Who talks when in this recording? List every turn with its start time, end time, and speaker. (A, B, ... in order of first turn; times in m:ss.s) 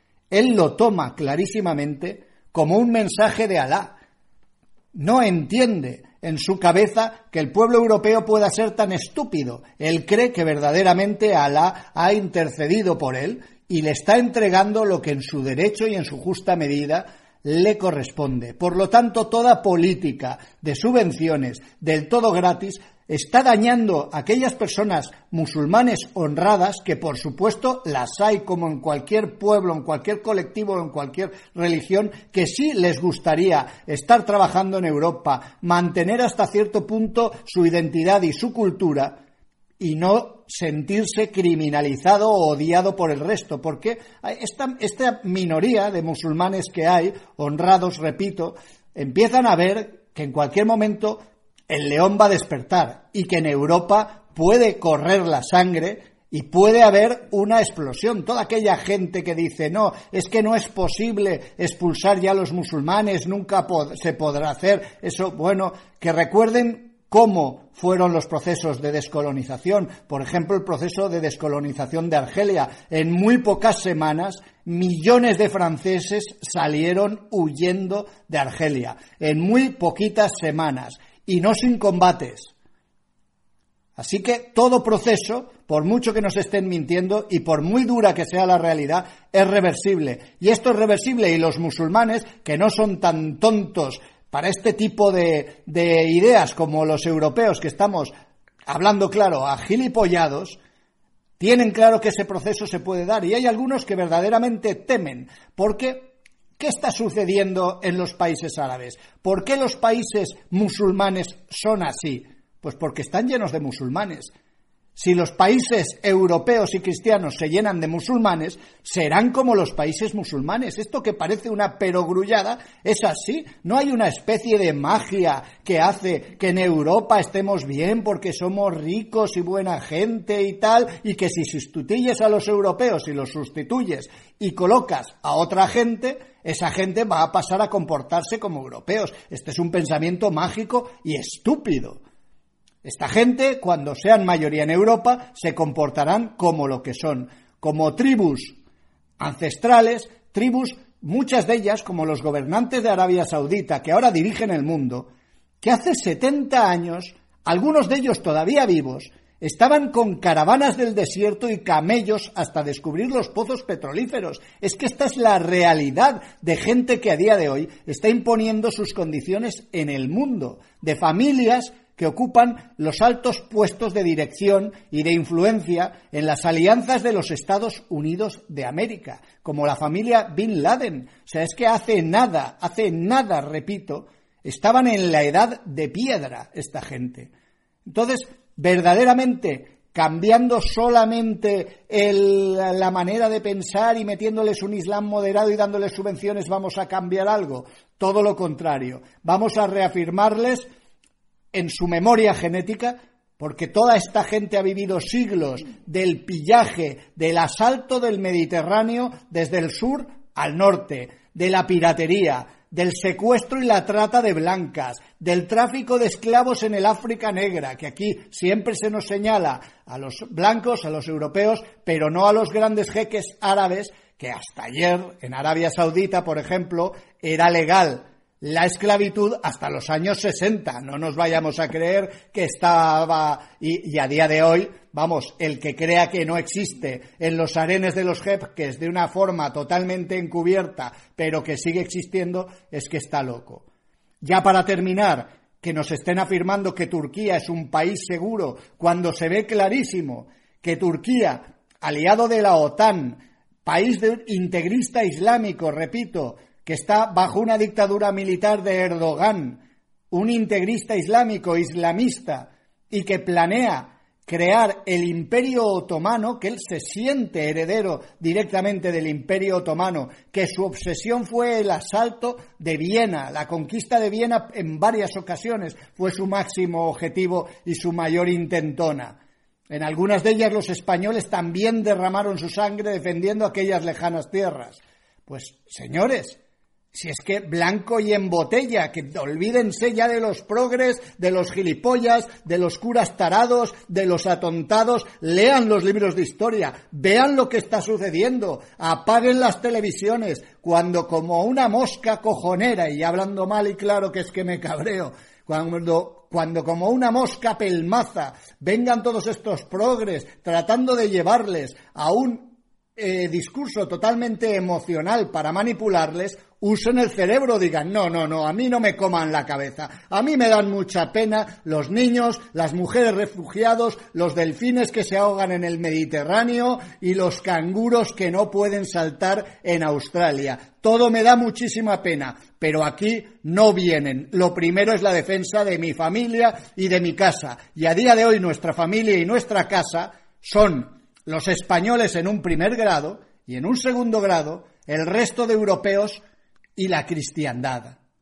0:00.3-0:04.0 A
0:04.9-0:39.2 A
0:39.8-1:22.5 A
1:24.0-1:38.1 A
1:38.6-1:40.6 A
1:41.4-1:54.3 A
1:55.0-2:22.0 A
2:22.8-2:28.6 A
2:29.2-2:35.1 A
2:35.6-3:07.3 A
3:07.8-3:20.6 A
3:21.5-4:03.6 A
4:04.2-4:39.2 A
4:39.7-4:46.4 A
4:46.9-5:46.2 A
5:46.8-5:48.0 A